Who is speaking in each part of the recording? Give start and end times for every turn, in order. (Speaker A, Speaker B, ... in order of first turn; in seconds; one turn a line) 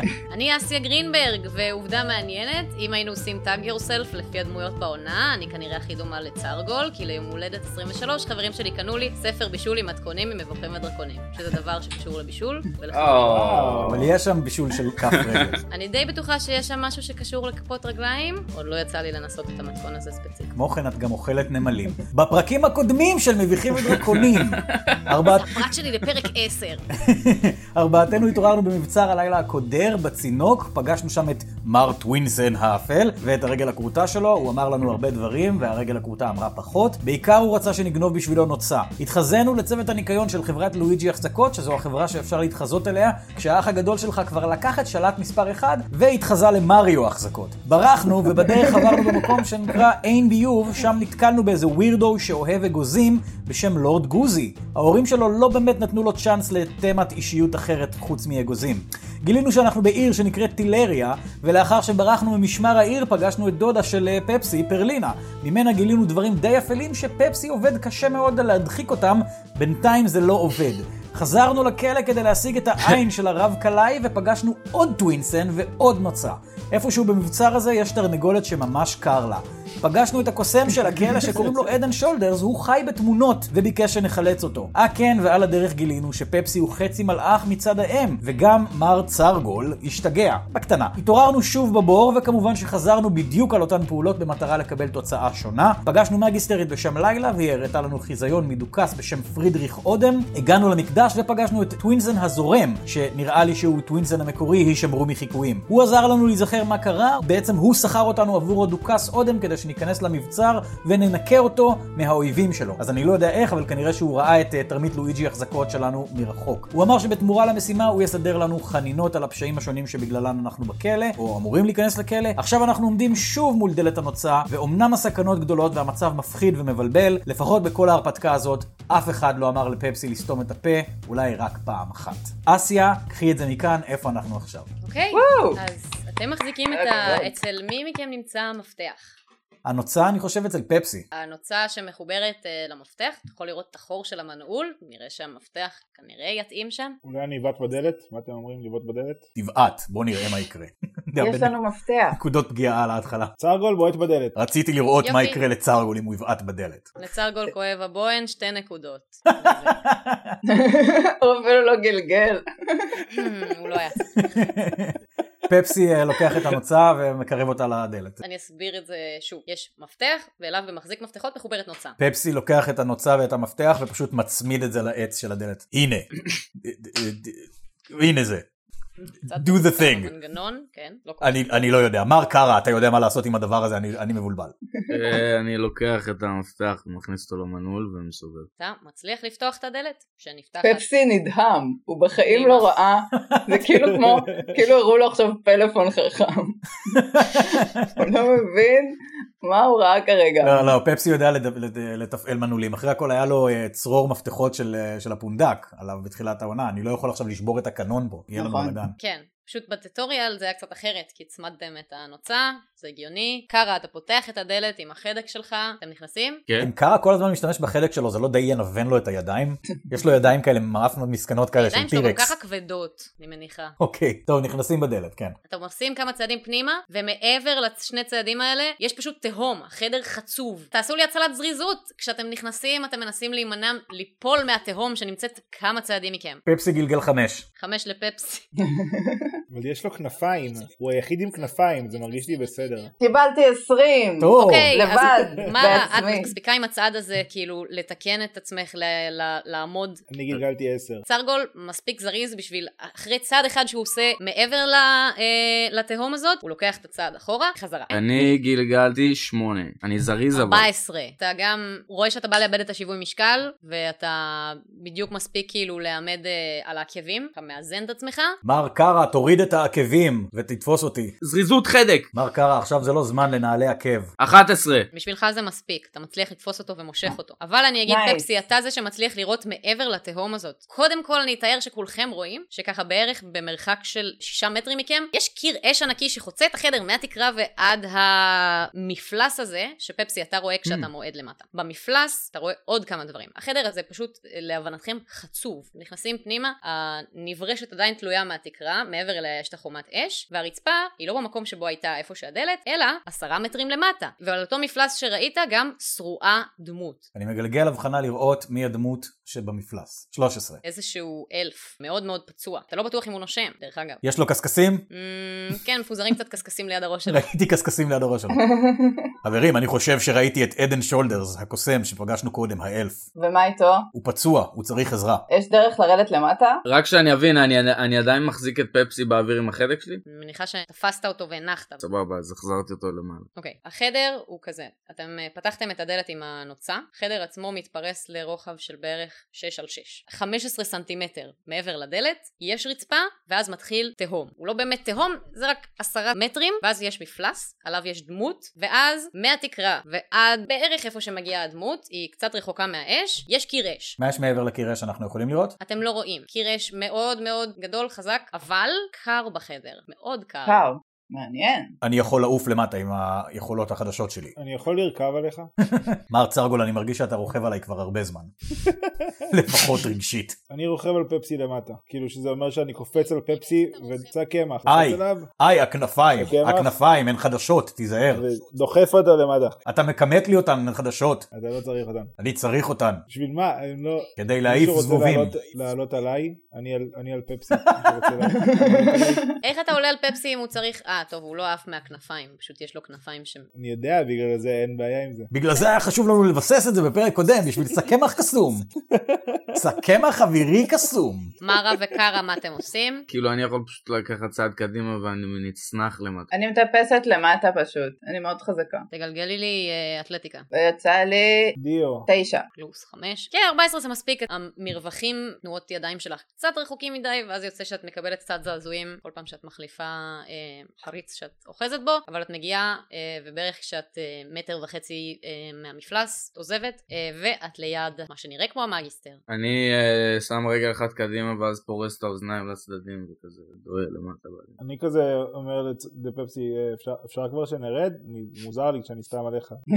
Speaker A: 0.3-13.7
Speaker B: 12.9-14.0
Speaker C: 13.3-14.2
Speaker D: 13.9-15.6
Speaker A: 15.7-20.5
Speaker D: 20.5-25.6
Speaker B: 24.1-25.0
Speaker A: 25.2-26.9
Speaker D: 27.0-134.7
Speaker C: 48.4-49.3
Speaker A: 134.8-139.1
Speaker E: 135.1-135.6
Speaker E: 136.7-137.3
Speaker D: 139.7-141.1
Speaker A: 141.1-147.0
Speaker C: 147.1-149.3
Speaker D: 149.4-151.6
Speaker E: 151.2-152.2
Speaker D: 152.1-153.3
Speaker C: 153.4-154.3
Speaker D: 154.3-156.9
Speaker A: 155.0-155.4
Speaker A: 157.0-159.8
Speaker D: 159.5-160.4
Speaker E: 160.5-163.1
Speaker A: 163.1-164.3
Speaker D: 164.2-168.2
Speaker A: 168.2-172.0
Speaker D: 172.0-176.1
Speaker D: 176.6-178.4
Speaker A: 179.2-181.5
Speaker D: 179.3-180.1
Speaker D: 181.2-184.5
Speaker E: 184.8-185.2
Speaker B: 184.9-188.5
Speaker A: 188.6-190.9
Speaker E: 190.6-200.7
Speaker A: 192.2-192.8
Speaker D: 193.2-193.6
Speaker C: 194.1-194.5
Speaker D: 196.9-197.9
Speaker D: 200.4-209.0
Speaker E: 208.4-208.8
Speaker A: 209.0-216.4
Speaker D: 216.6-222.3
Speaker A: 221.6-223.8
Speaker D: 223.8-225.4
Speaker A: 225.5-236.4
Speaker D: 236.5-237.4
Speaker A: 237.6-238.4
Speaker E: 238.7-239.3
Speaker C: 239.5-242.9
Speaker E: 243.0-246.3
Speaker D: 244.2-244.8
Speaker A: 244.3-250.0
Speaker C: 250.1-251.1
Speaker A: 251.1-258.0
Speaker B: 257.9-260.7
Speaker A: 260.3-268.4
Speaker D: 268.4-271.1
Speaker B: 271.2-272.1
Speaker D: 272.1-274.1
Speaker B: 274.2-274.9
Speaker A: 274.9-307.1
Speaker E: 277.9-278.3
Speaker D: 307.1-310.6
Speaker A: 310.6-314.0
Speaker D: 314.0-314.9
Speaker A: 314.9-317.3
Speaker D: 317.1-318.4
Speaker E: 318.4-319.1
Speaker D: 319.2-323.0
Speaker E: 323.2-323.9
Speaker D: 323.9-325.2
Speaker E: 325.3-326.6
Speaker B: 326.7-330.0
Speaker A: 330.1-331.8
Speaker B: 331.8-333.3
Speaker A: 333.4-354.0
Speaker D: 354.0-355.6
Speaker A: 355.6-360.7
Speaker E: 360.5-361.8
Speaker D: 361.8-364.3
Speaker C: 364.4-365.5
Speaker D: 365.6-368.3
Speaker C: 368.7-369.1
Speaker D: 369.3-370.4
Speaker C: 370.5-375.3
Speaker A: 372.9-374.1
Speaker D: 374.7-378.2
Speaker C: 376.2-376.7
Speaker C: 378.1-379.6
Speaker D: 379.7-381.3
Speaker C: 381.3-382.1
Speaker D: 382.2-383.0
Speaker C: 383.1-389.2
Speaker D: 384.2-385.4
Speaker E: 388.3-389.2
Speaker A: 389.4-393.5
Speaker C: 393.6-395.3
Speaker D: 395.3-398.7
Speaker C: 398.9-399.6
Speaker D: 399.6-401.3
Speaker A: 401.4-403.1
Speaker B: 403.1-406.3
Speaker E: 406.3-408.9
Speaker A: 408.9-410.5
Speaker E: 410.5-411.6
Speaker C: 411.6-412.1
Speaker E: 412.1-412.5
Speaker A: 412.6-429.2
Speaker B: 429.3-434.6
Speaker C: 434.6-439.6